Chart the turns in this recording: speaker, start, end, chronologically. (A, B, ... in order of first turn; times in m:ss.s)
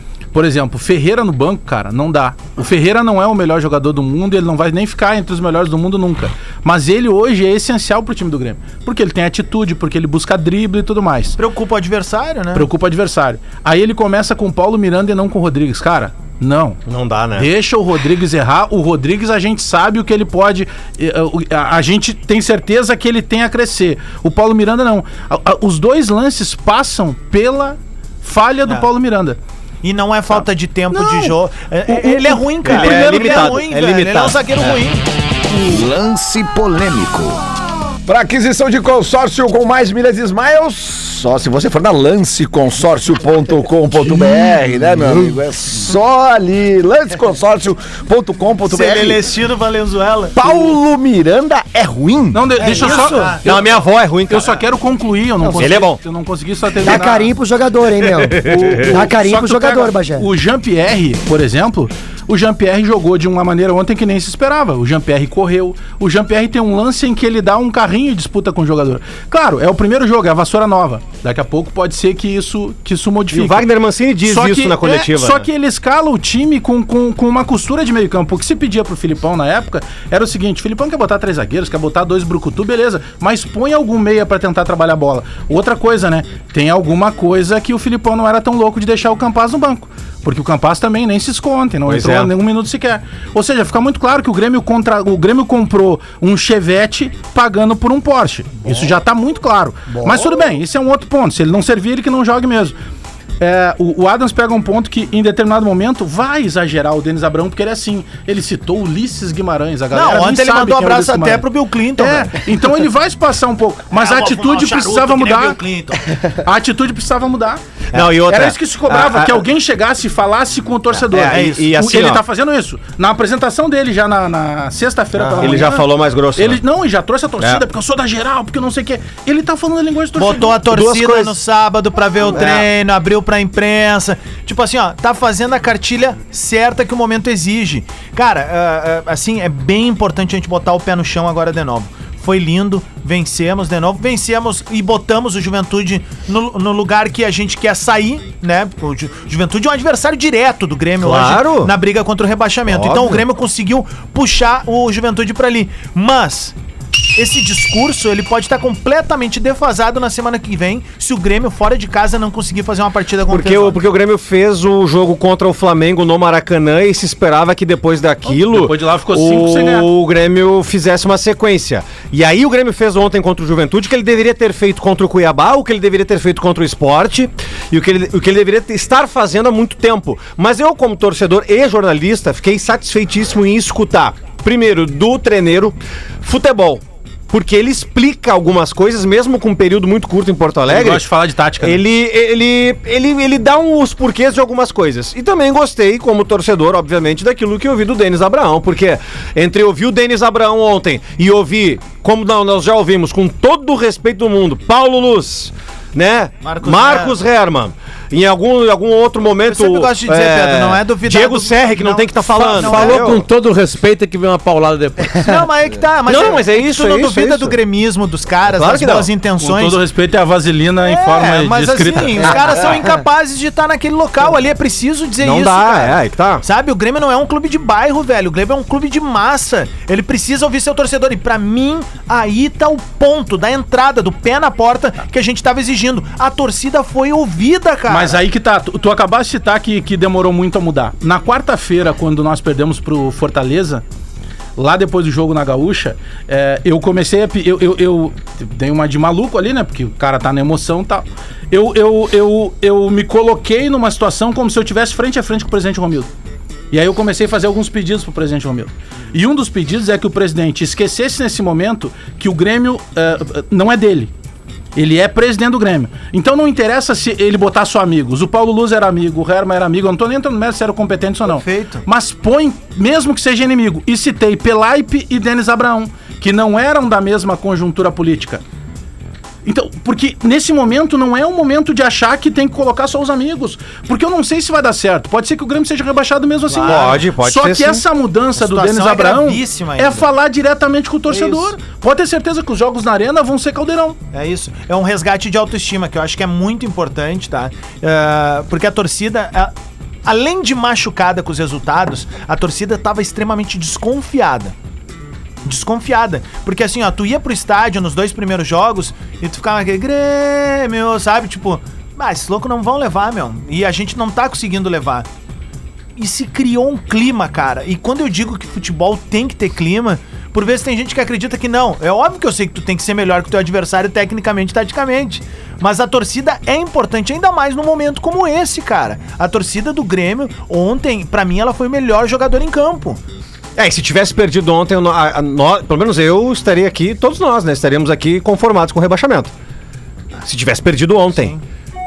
0:00.3-0:11.4 A
0:11.4-0:12.7 B
0:12.5-0:16.8 A
0:16.8-0:17.5 C
0:17.4-0:29.4 A
0:29.8-0:35.0 B
0:30.9-0:31.3 A
0:31.9-0:33.5 A
0:32.6-0:34.8 C
0:35.5-0:37.4 D
0:38.0-0:49.2 D
0:44.0-0:45.2 A
0:48.6-0:50.5 B
0:50.3-0:52.6 D
0:52.3-0:57.3 A
0:52.6-0:53.7 B
0:52.6-0:53.3 E
0:53.4-0:54.6 C
0:55.4-0:55.8 E
0:55.6-0:56.0 C
0:56.8-1:00.2 E
0:58.2-0:58.9 C
0:58.4-1:13.7 A
1:13.3-1:15.5 C
1:14.2-1:42.7 A
1:31.8-1:32.3 C
1:43.4-1:51.4 A
1:49.9-1:52.4 B
1:52.0-1:55.6 A
1:53.9-1:56.1 B
1:56.4-2:10.6 A
1:57.9-1:59.4 C
2:01.0-2:02.2 C
2:01.3-2:01.7 B
2:05.2-2:06.6 C
2:05.3-2:05.5 B
2:10.1-2:36.5 B
2:10.6-2:11.4 C
2:12.3-2:12.7 C
2:31.0-2:31.7 C
2:32.7-2:33.2 C
2:37.1-2:43.8 B
2:43.3-3:11.0 C
2:48.2-2:49.9 A
3:10.7-3:11.8 A
3:11.6-3:33.2 C
3:26.4-3:27.2 B
3:29.4-3:33.2 B
3:32.4-3:35.2 F
3:35.1-3:39.8 B
3:36.0-3:37.6 C
3:38.4-3:39.1 C
3:39.4-3:42.3 A
3:40.8-3:58.2 B
3:45.2-3:46.4 C
3:57.9-4:03.8 A
4:04.6-4:16.1 A
4:16.7-4:24.1 A
4:24.7-4:38.4 A
4:31.3-4:31.8 B
4:39.4-4:54.0 A
4:46.5-4:47.0 B
4:46.6-4:47.8 C
4:48.4-4:50.1 B
4:51.1-4:51.5 B
4:54.1-4:59.5 B
5:00.0-5:04.5 B
5:05.4-5:15.1 B
5:16.0-5:33.0 B
5:33.6-5:39.3 C
5:40.2-5:41.4 C
5:41.1-5:41.4 B